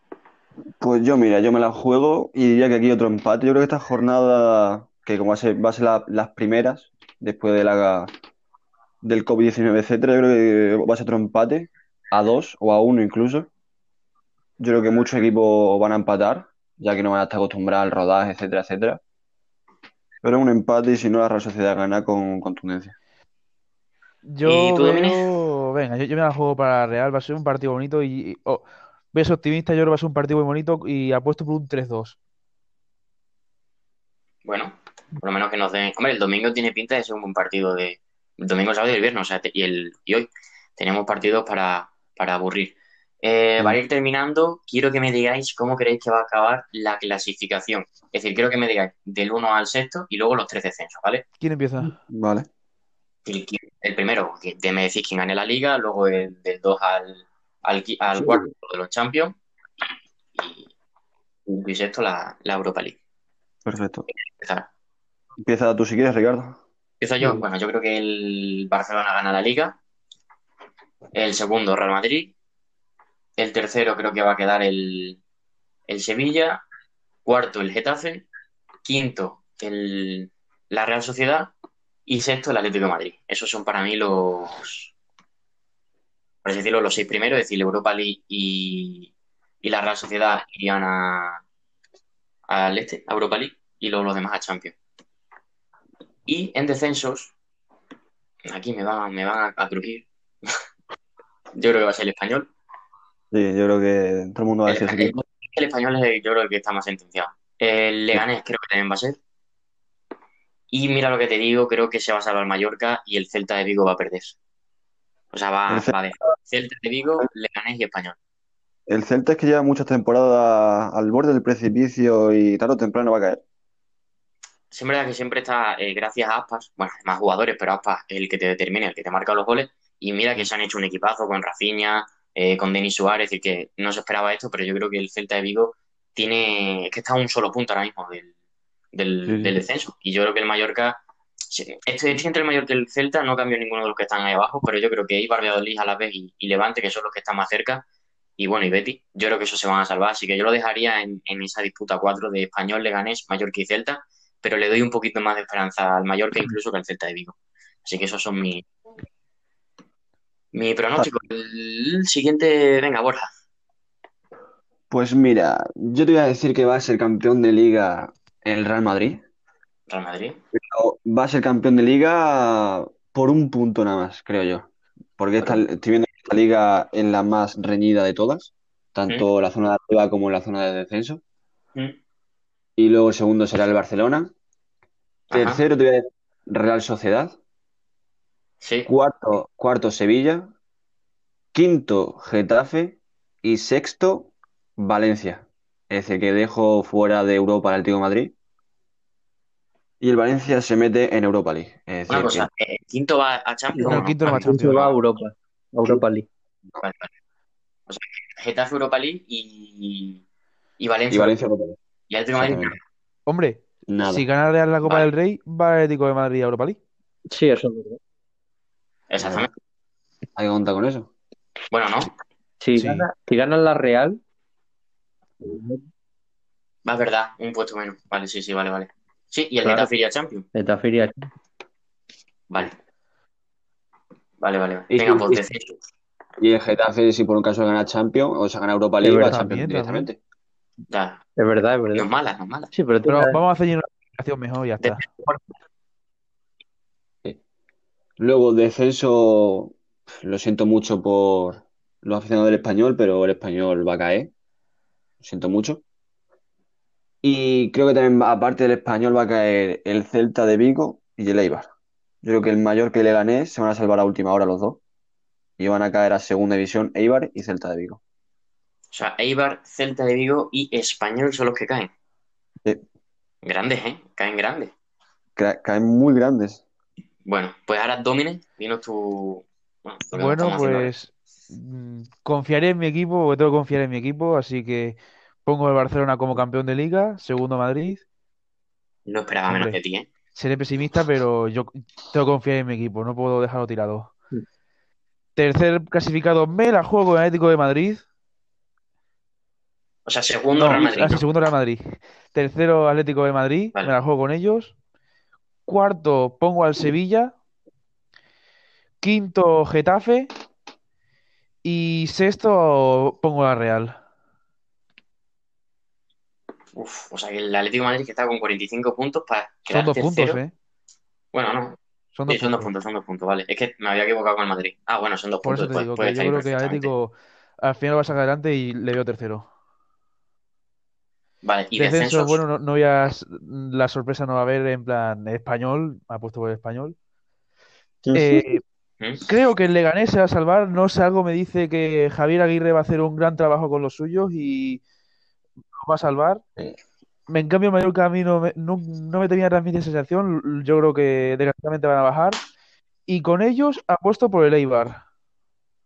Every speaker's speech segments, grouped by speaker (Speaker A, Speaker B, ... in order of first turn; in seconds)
Speaker A: 0.8-8.1, 9.0-13.5, 14.6-19.0, 20.2-23.0, 51.9-52.5, 63.6-64.1, 65.4-66.6, 103.3-105.2, 115.7-116.0, 118.9-123.4, 139.3-139.6, 164.9-169.2, 170.5-181.2, 182.8-184.3, 185.3-187.4, 188.9-190.5, 191.5-198.3, 200.0-202.5, 211.1-211.8, 212.3-212.8, 213.9-214.2, 219.2-219.5, 220.4-221.1, 234.9-235.4, 236.4-240.2, 248.2-254.3, 255.2-255.8, 257.2-261.7, 262.2-264.8, 265.6-268.0, 275.4-276.6
Speaker B: 24.2-32.2, 51.4-52.0, 203.8-205.0, 213.3-216.8, 222.8-223.1, 239.2-240.1, 243.0-245.1, 280.1-288.0, 289.5-289.8, 290.4-294.1, 295.4-298.0, 300.6-304.8, 305.7-307.3, 309.0-310.3, 311.6-314.0, 319.7-320.5, 322.1-322.7, 325.4-329.5, 331.8-336.9, 338.1-338.6, 339.3-344.8, 345.8-346.4, 347.3-352.4, 353.1-355.0
Speaker C: 24.4-25.2, 34.5-51.3, 53.3-59.4, 60.4-60.7, 61.5-63.0, 64.3-64.7, 67.0-69.8, 71.1-72.3, 73.4-75.2, 75.9-76.7, 77.2-78.3, 78.8-81.5, 82.1-84.9, 86.4-91.4, 92.5-94.8, 96.3-97.3, 98.5-100.6, 101.5-102.5, 104.7-109.2, 110.7-114.4, 115.3-118.2, 124.7-138.3, 138.9-147.8, 148.4-158.7, 160.5-163.3, 169.9-170.4, 185.3-185.6, 188.6-188.9, 202.1-205.0, 206.8-207.1, 207.9-210.2, 210.8-211.3, 212.1-212.8, 219.1-219.5, 221.7-222.1, 226.8-230.5, 232.5-232.8, 234.4-235.8, 240.9-241.2, 241.9-242.7, 244.8-245.4, 268.9-271.9, 273.4-274.7, 277.3-280.9, 289.1-290.1, 300.1-301.2, 316.8-320.4, 321.3-326.9, 331.4-332.4
Speaker D: 203.7-206.3, 217.3-218.0, 222.6-224.2, 225.4-225.8, 229.6-229.9, 230.5-231.3, 239.0-239.6, 241.4-242.1, 242.7-243.4